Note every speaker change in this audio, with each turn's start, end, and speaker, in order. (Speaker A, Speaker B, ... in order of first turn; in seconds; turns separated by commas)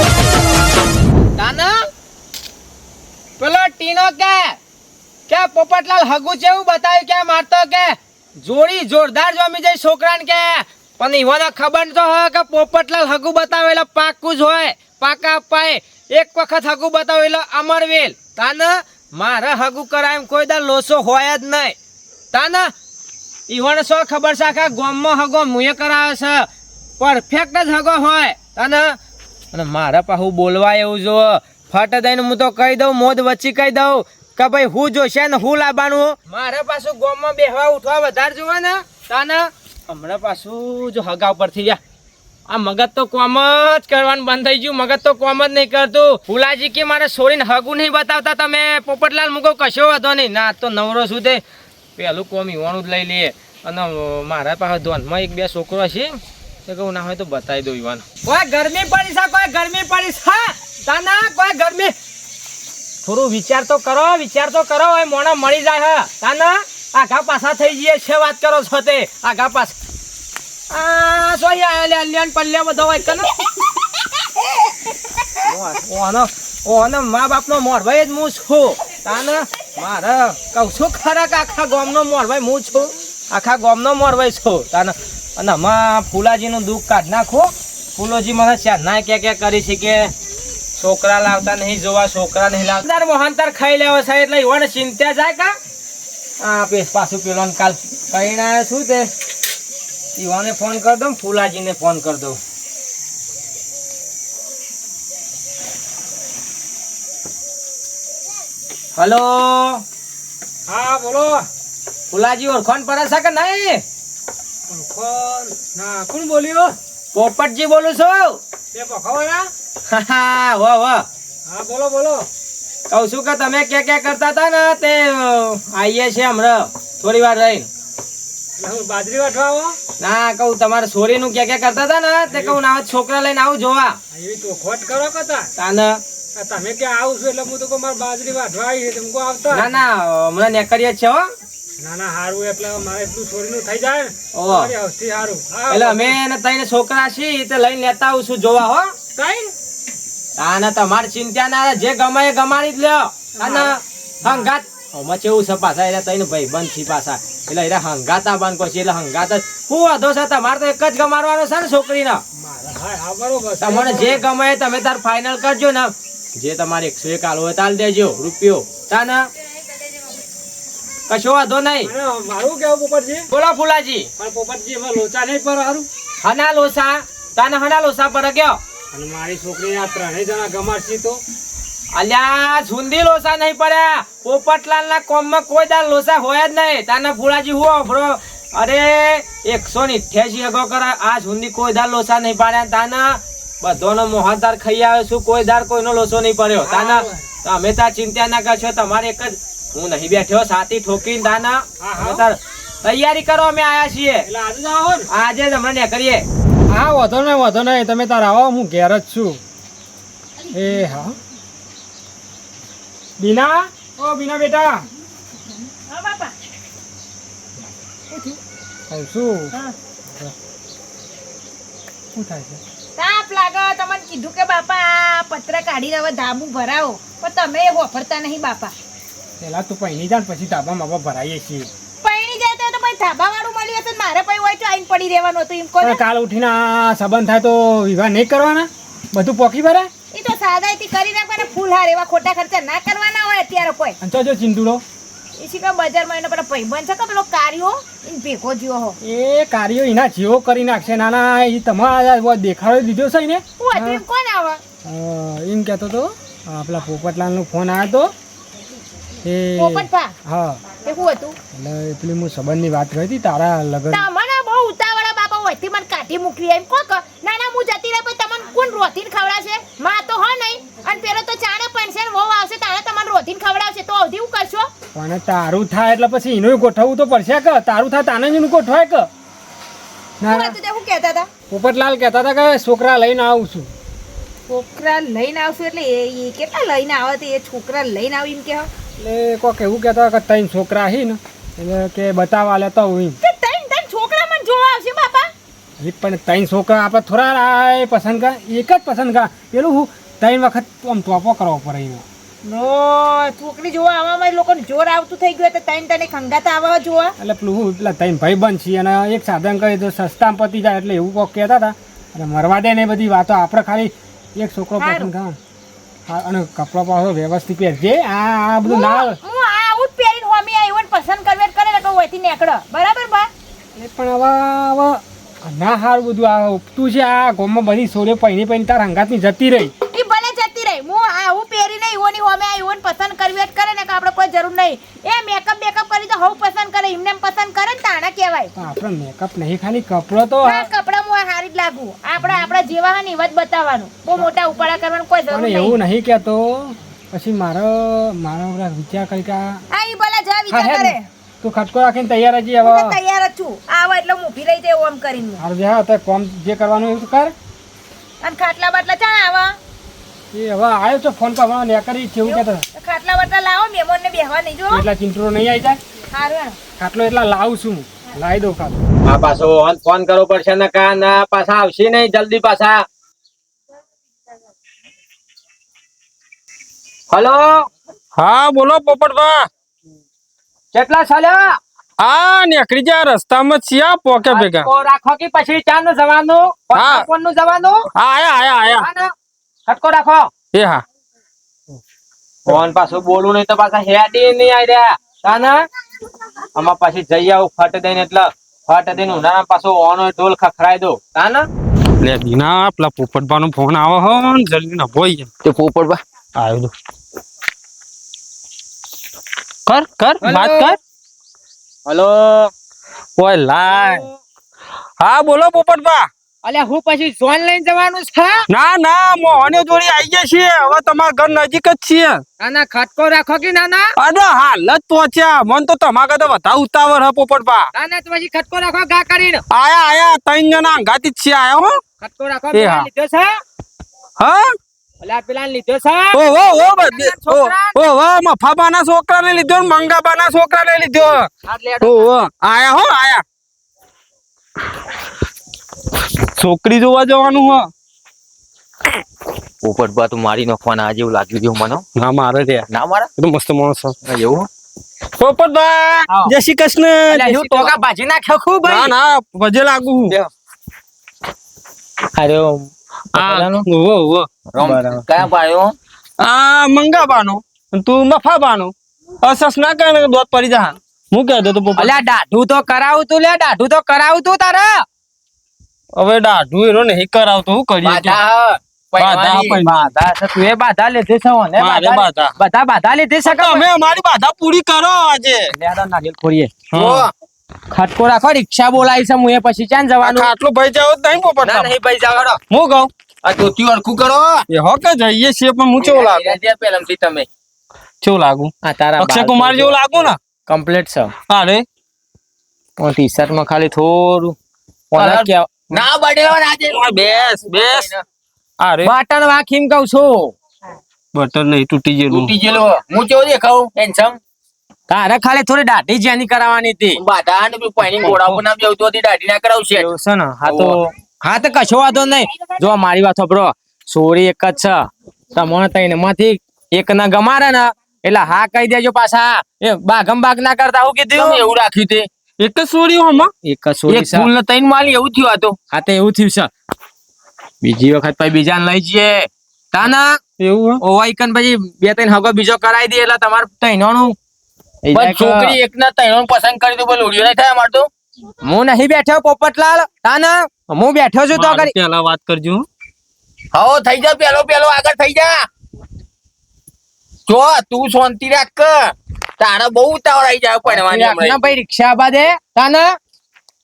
Speaker A: 1.4-1.7, Speaker A: 3.4-4.6, Speaker A: 5.3-21.8, Speaker A: 22.3-22.7, Speaker A: 23.5-26.5, Speaker A: 27.0-29.0, Speaker A: 29.5-41.8, Speaker A: 42.5-51.4, Speaker A: 52.0-61.9, Speaker A: 63.0-69.8, Speaker A: 70.7-73.3, Speaker A: 75.4-90.1, Speaker A: 90.8-95.5, Speaker A: 96.4-99.1, Speaker A: 100.2-102.4, Speaker A: 109.0-109.8, Speaker B: 110.7-111.4, Speaker A: 112.1-113.8, Speaker B: 114.7-116.6, Speaker A: 117.1-118.4, Speaker B: 118.7-119.4, Speaker A: 119.9-121.0, Speaker B: 121.5-122.2, Speaker A: 122.9-127.7, Speaker B: 128.6-129.7, Speaker A: 130.0-134.0, Speaker B: 132.3-132.5, Speaker B: 134.1-135.4, Speaker A: 135.6-136.0, Speaker B: 136.4-139.7, Speaker A: 139.5-141.3, Speaker B: 141.8-146.1, Speaker A: 144.3-144.7, Speaker A: 145.7-148.9, Speaker B: 149.2-149.5, Speaker A: 150.4-162.2, Speaker B: 153.4-153.7, Speaker B: 162.4-164.2, Speaker A: 163.6-169.2, Speaker A: 171.1-171.9, Speaker B: 171.9-173.2, Speaker A: 173.3-174.1, Speaker B: 174.2-175.8, Speaker A: 176.2-178.6, Speaker B: 178.9-181.2, Speaker A: 181.9-204.2, Speaker B: 196.7-197.1, Speaker B: 201.8-202.2, Speaker B: 204.3-205.0, Speaker A: 205.1-206.2, Speaker B: 206.7-209.4, Speaker B: 210.5-211.1, Speaker B: 213.2-214.8, Speaker C: 215.9-216.3, Speaker C: 218.1-218.4, Speaker B: 218.9-219.5, Speaker B: 222.1-222.6, Speaker C: 222.9-228.7, Speaker B: 229.4-231.7, Speaker C: 232.0-236.0, Speaker B: 235.8-239.9, Speaker C: 240.1-244.0, Speaker B: 244.0-244.8, Speaker C: 245.4-249.0, Speaker B: 249.0-254.0, Speaker C: 253.6-254.6, Speaker B: 254.8-258.1, Speaker B: 259.2-260.6, Speaker C: 259.6-260.2, Speaker C: 260.7-261.4, Speaker B: 261.5-264.1, Speaker C: 263.9-274.7, Speaker B: 274.9-279.1, Speaker B: 280.2-280.6, Speaker C: 280.2-281.3, Speaker B: 281.5-283.7, Speaker C: 284.5-288.7, Speaker B: 289.0-293.1, Speaker C: 293.2-295.3, Speaker B: 295.8-302.0, Speaker C: 302.4-307.1, Speaker B: 307.2-315.3, Speaker C: 314.8-315.1, Speaker B: 316.1-319.2, Speaker C: 318.6-323.3, Speaker B: 323.8-329.7, Speaker C: 329.9-338.5, Speaker B: 338.6-340.7, Speaker C: 340.4-345.8, Speaker B: 345.3-349.5, Speaker C: 349.7-351.1, Speaker B: 350.5-352.9, Speaker C: 352.6-355.4, Speaker B: 355.4-357.3, Speaker C: 358.2-359.6, Speaker B: 360.3-362.6, Speaker C: 362.2-364.8, Speaker B: 364.7-365.8, Speaker C: 366.1-366.6, Speaker B: 366.8-368.8, Speaker A: 369.0-372.8, Speaker A: 377.1-377.7, Speaker D: 378.1-379.5, Speaker A: 380.7-381.6, Speaker D: 382.0-384.7, Speaker A: 384.2-387.9, Speaker D: 386.7-387.1, Speaker D: 387.9-388.9, Speaker A: 388.7-389.1, Speaker A: 389.7-390.3, Speaker D: 390.5-390.8, Speaker A: 392.4-395.6, Speaker A: 396.5-401.5, Speaker D: 402.0-405.3, Speaker E: 405.4-406.0, Speaker D: 406.4-406.7, Speaker D: 409.7-410.8, Speaker A: 410.2-410.8, Speaker A: 411.8-412.5, Speaker D: 413.2-414.1, Speaker A: 413.7-414.1, Speaker D: 415.0-416.1, Speaker A: 416.4-418.4, Speaker D: 418.5-422.2, Speaker A: 422.4-423.9, Speaker D: 424.0-427.7, Speaker A: 427.7-429.4, Speaker D: 429.5-431.8, Speaker A: 432.0-433.3, Speaker D: 432.5-432.9, Speaker D: 434.2-434.5, Speaker A: 435.0-437.8, Speaker D: 436.1-441.3, Speaker A: 441.5-442.0, Speaker D: 441.8-443.2, Speaker D: 446.4-447.7, Speaker E: 449.6-451.8, Speaker D: 452.0-453.9, Speaker E: 452.7-453.1, Speaker E: 454.0-454.5, Speaker D: 455.2-457.7, Speaker A: 456.1-456.3, Speaker A: 457.1-458.9, Speaker D: 458.6-460.2, Speaker A: 462.2-463.7, Speaker D: 463.1-464.3, Speaker E: 464.5-465.8, Speaker A: 464.6-465.1, Speaker D: 466.2-471.9, Speaker A: 471.8-474.8, Speaker D: 475.9-478.2, Speaker E: 477.8-479.5, Speaker D: 479.0-479.9, Speaker A: 479.0-483.7, Speaker D: 481.6-482.3, Speaker D: 483.2-485.5, Speaker A: 485.5-487.0, Speaker D: 486.7-487.1, Speaker E: 486.8-487.1, Speaker A: 487.7-490.3, Speaker D: 490.0-491.7, Speaker A: 491.4-492.4, Speaker D: 492.5-492.9, Speaker E: 493.2-494.4, Speaker D: 494.5-496.4, Speaker E: 495.8-497.3, Speaker D: 498.0-500.2, Speaker A: 498.6-501.1, Speaker D: 501.3-501.6, Speaker A: 502.8-504.4, Speaker A: 504.9-505.9, Speaker E: 504.9-508.0, Speaker D: 506.7-507.9, Speaker D: 508.6-508.9, Speaker A: 508.8-510.3, Speaker D: 511.1-512.3, Speaker E: 512.1-514.2, Speaker A: 514.9-517.0, Speaker E: 517.0-519.9, Speaker D: 518.0-518.3, Speaker A: 519.7-531.4, Speaker E: 520.4-520.7, Speaker E: 531.1-532.1, Speaker D: 532.4-533.3, Speaker A: 533.4-534.3, Speaker E: 533.9-535.6, Speaker A: 535.7-536.5, Speaker A: 537.6-540.2, Speaker D: 540.4-540.8, Speaker A: 540.8-544.1, Speaker A: 544.8-545.6, Speaker E: 544.9-547.9, Speaker A: 548.4-551.7, Speaker D: 551.3-552.6, Speaker E: 553.5-555.5, Speaker E: 557.3-561.4, Speaker A: 560.6-563.0